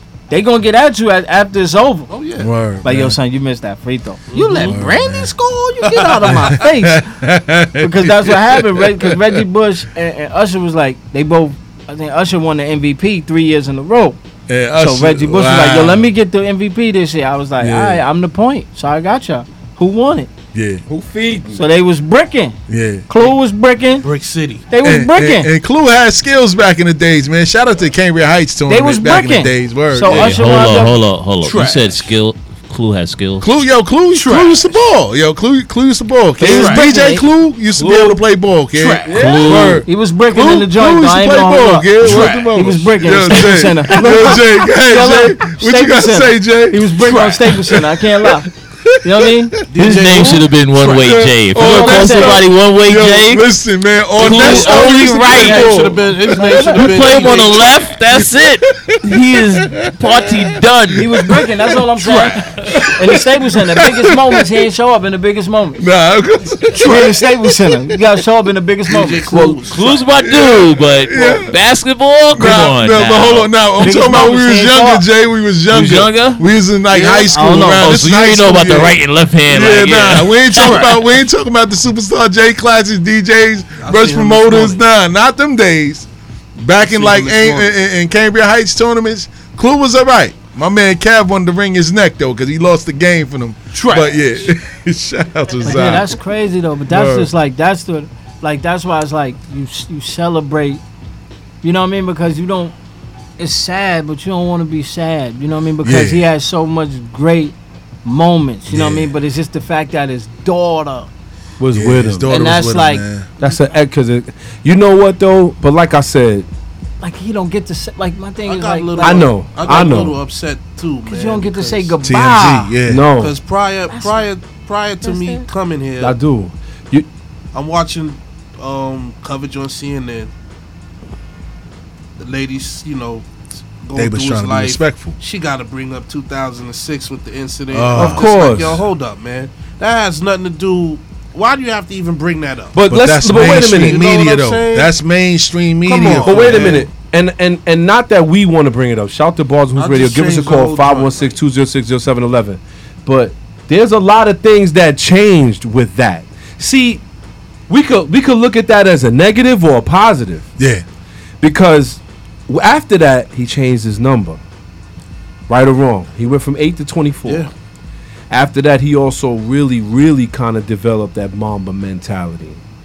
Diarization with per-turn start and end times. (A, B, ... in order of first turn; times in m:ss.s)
0:00.3-0:02.1 A
0:02.1-0:02.5 B
0:02.4-0:03.2 C
0:02.8-0:07.0 A
0:04.3-0:04.8 B
0:04.6-0:05.3 C
0:06.0-0:09.4 C
0:06.2-0:06.5 B
0:07.8-0:14.2 A
0:14.5-0:16.1 C
0:14.8-0:20.3 A
0:17.6-0:18.0 C
0:20.5-0:20.8 C
0:20.9-0:21.6 D
0:21.5-0:24.0 A
0:22.7-0:23.0 C
0:24.0-0:24.6 B
0:24.7-0:25.5 A
0:24.8-0:30.4 C
0:28.7-0:31.0 A
0:30.0-0:33.5 E
0:31.4-0:32.1 D
0:33.4-0:50.0 C
0:34.2-0:34.6 D
0:36.4-0:36.8 D
0:36.4-0:37.2 A
0:37.8-0:38.2 D
0:38.8-0:39.8 D
0:39.1-0:39.8 E
0:39.8-0:48.5 A
0:42.0-0:42.4 B
0:44.0-0:44.4 D
0:49.0-0:49.6 A
0:49.7-0:51.1 B
0:49.8-0:53.5 E
0:50.8-0:57.4 C
0:51.6-0:52.4 A
0:54.2-0:57.8 B
0:54.2-0:55.7 D
0:54.2-1:01.1 E
0:58.1-0:58.9 C
0:59.7-1:01.4 C
1:00.9-1:05.8 A
1:01.9-1:04.4 C
1:05.8-1:08.0 C
1:06.8-1:09.3 A
1:08.9-1:10.1 B
1:09.3-1:09.6 D
1:09.6-1:13.5 E
1:10.1-1:11.5 C
1:12.3-1:36.1 C
1:13.8-1:15.0 A
1:15.7-1:16.4 E
1:16.9-1:17.4 B
1:17.3-1:18.0 A
1:17.8-1:21.0 E
1:23.8-1:24.8 B
1:26.8-1:27.7 B
1:33.7-1:34.1 D
1:35.6-1:40.8 A
1:36.9-1:37.3 C
1:41.6-1:42.7 A
1:43.4-1:51.1 A
1:45.8-1:46.2 C
1:48.7-1:49.1 C
1:51.6-1:52.3 D
1:51.7-1:53.3 C
1:52.3-1:53.6 A
1:53.4-1:56.4 D
1:57.0-1:59.3 A
1:58.4-2:01.9 B
1:59.0-2:00.2 D
2:01.0-2:02.7 A
2:02.0-2:03.0 C
2:02.9-2:03.3 D
2:03.2-2:06.2 B
2:05.0-2:05.3 A
2:06.0-2:07.1 D
2:07.5-2:10.3 B
2:12.2-2:13.3 B
2:13.8-2:22.8 B
2:13.9-2:15.2 C
2:17.7-2:18.7 C
2:17.9-2:18.8 D
2:22.7-2:24.0 D
2:22.9-2:26.9 C
2:23.3-2:24.9 B
2:25.8-2:26.9 B
2:26.2-2:37.0 D
2:29.8-2:31.4 B
2:37.7-2:40.4 D
2:40.6-2:40.8 C
2:41.4-2:44.4 D
2:45.5-2:47.4 D
2:47.2-2:47.5 B
2:48.3-2:52.6 D